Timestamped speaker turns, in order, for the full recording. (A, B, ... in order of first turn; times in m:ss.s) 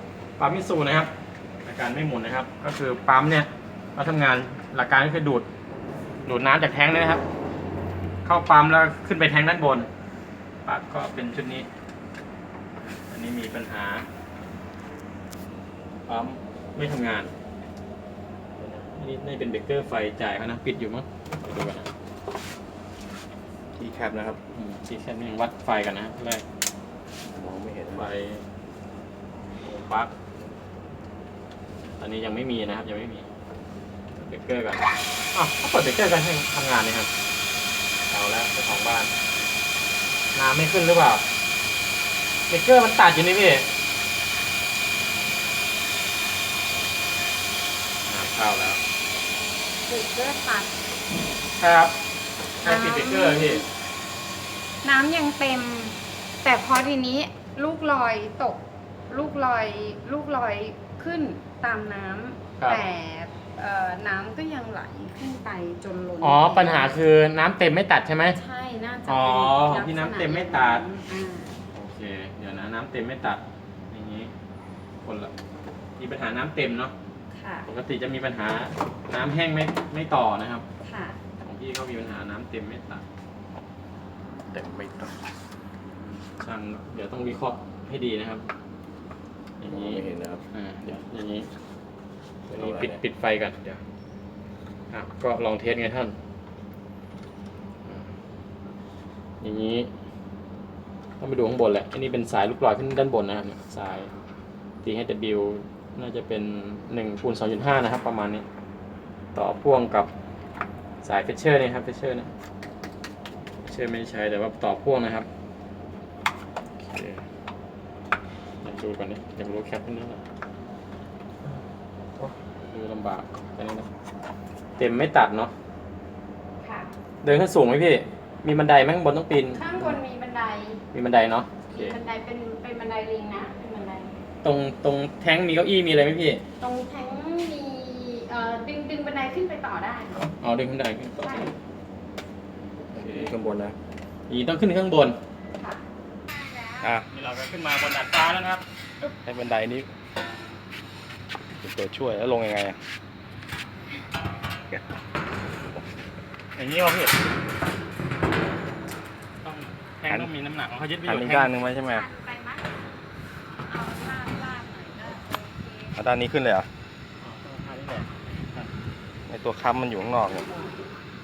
0:00.4-0:01.1 A
0:01.6-0:05.5 A
0:06.2-0:07.2 A
0:08.2-0:09.9 A
0:10.6-0:11.7 A
0:13.1-0:14.0 A
0:16.0-0:17.3 A
0:18.6-0:21.9 A
0:23.8-0:24.4 B
0:24.4-0:26.4 A
0:27.3-0:28.0 B
0:27.9-0:28.4 A
0:29.6-0:30.1 A
0:32.0-0:33.3 A
0:34.2-0:37.1 A
0:38.1-0:39.1 A
0:40.3-0:41.2 A
0:42.5-0:43.7 A
0:48.0-0:48.8 A
0:49.8-0:50.8 C
0:51.6-0:51.9 A
0:52.6-0:53.6 A
0:52.6-0:53.6 C
0:54.8-1:07.0 C
1:02.6-1:02.9 A
1:06.2-1:08.4 A
1:08.3-1:11.6 C
1:09.1-1:10.8 A
1:11.7-1:14.3 A
1:15.0-1:15.3 A
1:16.0-1:16.9 A
1:17.3-1:17.7 C
1:17.6-1:20.6 A
1:20.8-1:21.2 C
1:21.4-1:23.0 A
1:24.5-1:25.3 B
1:26.2-1:28.4 A
1:29.6-1:31.5 A
1:29.6-1:30.4 B
1:32.5-1:33.0 B
1:32.5-1:33.6 A
1:34.9-1:36.2 A
1:39.4-1:39.9 A
1:41.2-1:44.1 A
1:44.8-1:48.4 A
1:49.3-1:50.1 A
1:51.0-1:52.3 A
1:53.6-1:55.3 A
1:58.6-2:00.2 A
2:02.2-2:03.9 A
2:04.8-2:05.5 A
2:06.6-2:06.9 C
2:07.2-2:10.0 A
2:09.5-2:10.8 C
2:10.9-2:12.0 A
2:11.7-2:14.2 C
2:14.4-2:16.4 A
2:16.6-2:20.3 C
2:20.2-2:21.5 A
2:21.2-2:21.5 C
2:22.9-2:23.8 B
2:23.0-2:23.3 A
2:24.3-2:25.2 A
2:25.6-2:27.0 C
2:26.8-2:27.1 B
2:27.0-2:28.6 A
2:29.2-2:29.9 B
2:31.6-2:32.8 B
2:36.6-2:37.1 A
2:39.4-2:41.5 A
2:41.0-2:42.1 B
2:41.8-2:42.8 C
2:43.7-2:46.0 C
2:46.0-2:46.7 B
2:47.2-2:48.7 A
2:49.3-2:50.5 B